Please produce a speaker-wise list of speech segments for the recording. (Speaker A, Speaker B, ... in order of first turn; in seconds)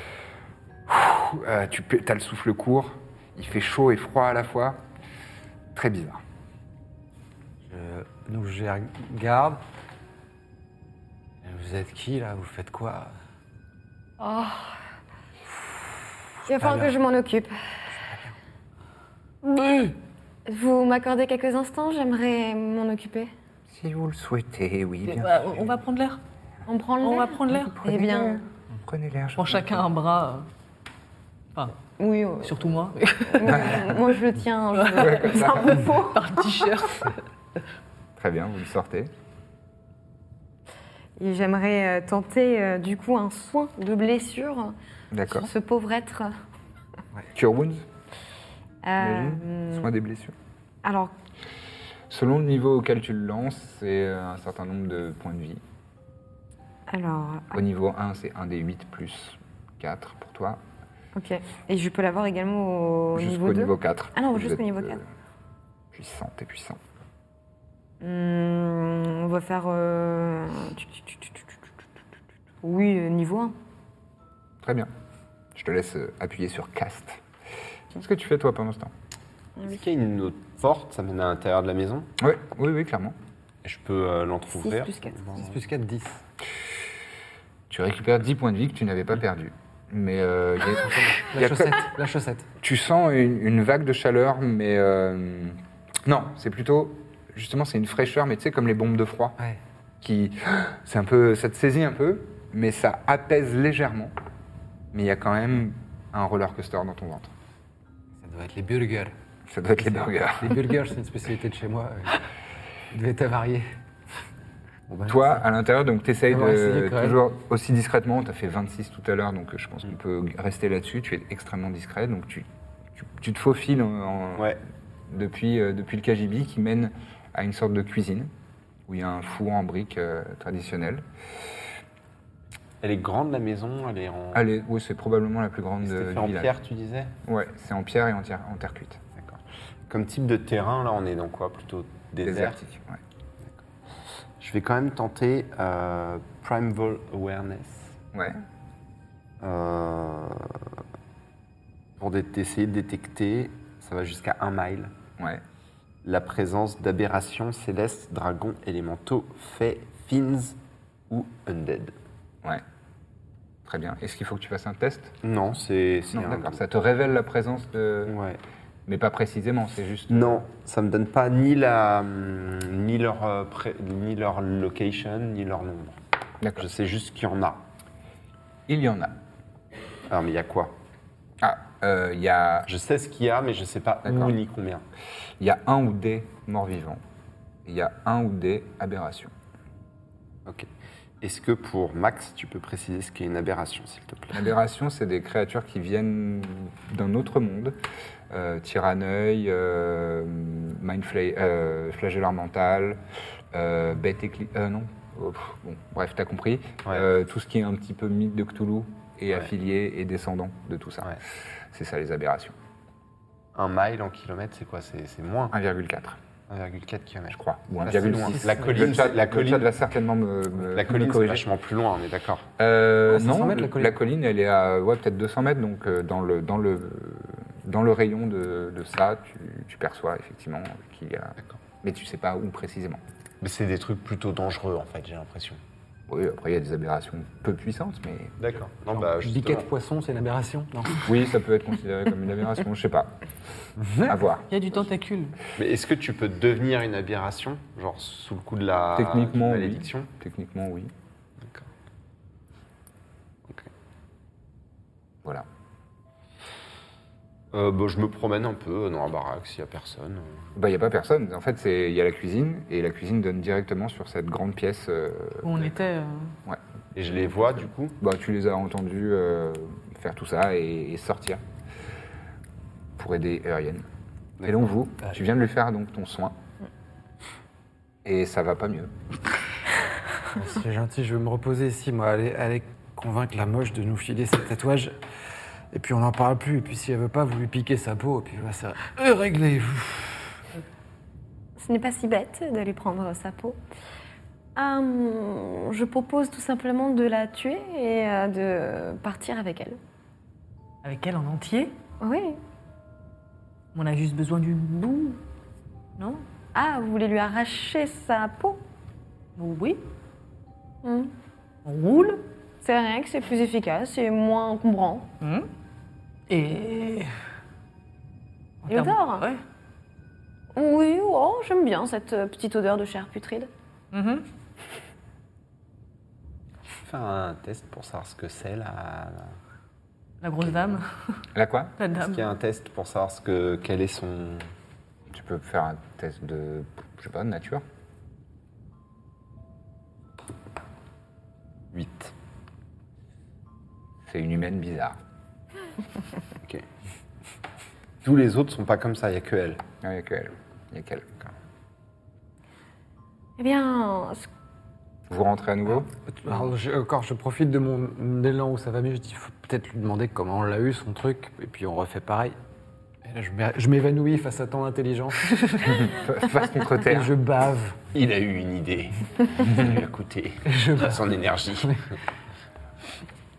Speaker A: 0.9-4.8, 5.7-6.2, 23.7-25.7, 27.7-29.8, 33.5-33.9, 34.9-35.8, 38.1-39.1, 45.1-45.5, 47.3-47.9, 49.0-50.3, 52.1-55.6, 57.5-60.6, 63.1-65.0, 65.9-66.8, 74.6-74.9, 75.5-77.2, 77.9-78.9, 82.2-83.2, 87.7-91.8, 92.6-99.3, 100.0-104.1, 104.9-107.3, 109.5-110.7, 115.1-124.6, 125.1-128.3, 128.9-131.0, 134.3-136.5, 137.2-139.0, 142.2-143.0, 148.1-148.4, 155.2-155.4, 163.6-165.2, 166.1-168.2, 168.8-170.4, 178.7-179.2, 181.4-182.7, 184.0-184.3, 185.4-187.0, 187.6-189.3, 194.3-197.8, 198.3-203.0, 203.5-211.2, 211.7-212.5, 215.5-216.2, 217.3-221.4, 222.6-233.0, 236.1-238.3, 241.0-243.2, 244.0-244.5, 248.9-250.9, 260.5-265.8, 267.1-271.4, 273.0-273.9, 274.4-276.4, 278.0-278.9, 331.3-331.7, 335.1-337.6, 344.0-345.0, 349.8-351.1, 355.1-355.9, 365.6-367.1
Speaker B: 7.7-9.6, 11.4-13.1, 16.5-16.9, 85.3-86.2, 90.9-92.5, 108.2-109.1, 109.8-112.2, 112.9-113.6, 114.9-115.4, 116.3-117.2, 218.3-218.9, 223.1-223.9, 239.2-241.1, 243.8-244.2, 280.3-284.9, 285.7-290.3, 356.1-362.4, 363.0-365.3, 366.9-367.8, 370.4-371.0
Speaker C: 14.2-14.8, 16.5-17.5, 20.4-23.3, 26.7-28.4, 32.0-32.6, 33.3-36.2, 41.2-44.7, 45.3-46.3, 48.8-49.9, 50.8-51.1, 56.9-57.6, 61.1-65.0, 68.0-71.7, 72.6-73.5, 84.5-85.4, 291.6-293.6, 294.6-299.8, 302.0-302.4, 306.5-308.6, 310.8-311.1, 312.6-315.1, 318.7-319.3, 320.5-323.5, 353.4-354.3
Speaker D: 19.4-19.9, 25.0-26.2, 27.0-27.8, 29.4-30.5, 32.4-34.0, 34.7-37.1, 244.5-245.4, 265.4-266.3, 300.8-301.7, 303.7-305.2, 306.0-306.2, 309.4-309.8, 311.6-312.2, 315.2-315.5, 316.3-317.1, 318.6-319.4, 323.9-324.2, 330.2-331.2, 331.8-332.3
Speaker E: 79.6-82.1, 83.6-85.4, 132.8-134.4, 135.8-137.1, 139.2-142.6, 144.4-148.0, 149.4-150.6, 152.0-154.9, 156.0-160.6, 161.1-161.9, 165.2-166.6, 168.1-168.4, 170.1-176.0, 176.6-177.6, 180.1-180.7, 182.7-184.8, 191.2-194.4, 213.5-215.5, 216.5-219.7, 220.7-222.5, 233.4-235.6, 238.4-239.7, 245.6-250.1, 251.4-251.7, 257.5-260.5, 266.9-268.0, 274.4-274.7, 326.8-329.4, 331.9-334.5, 341.7-342.1, 348.0-349.6, 367.9-371.8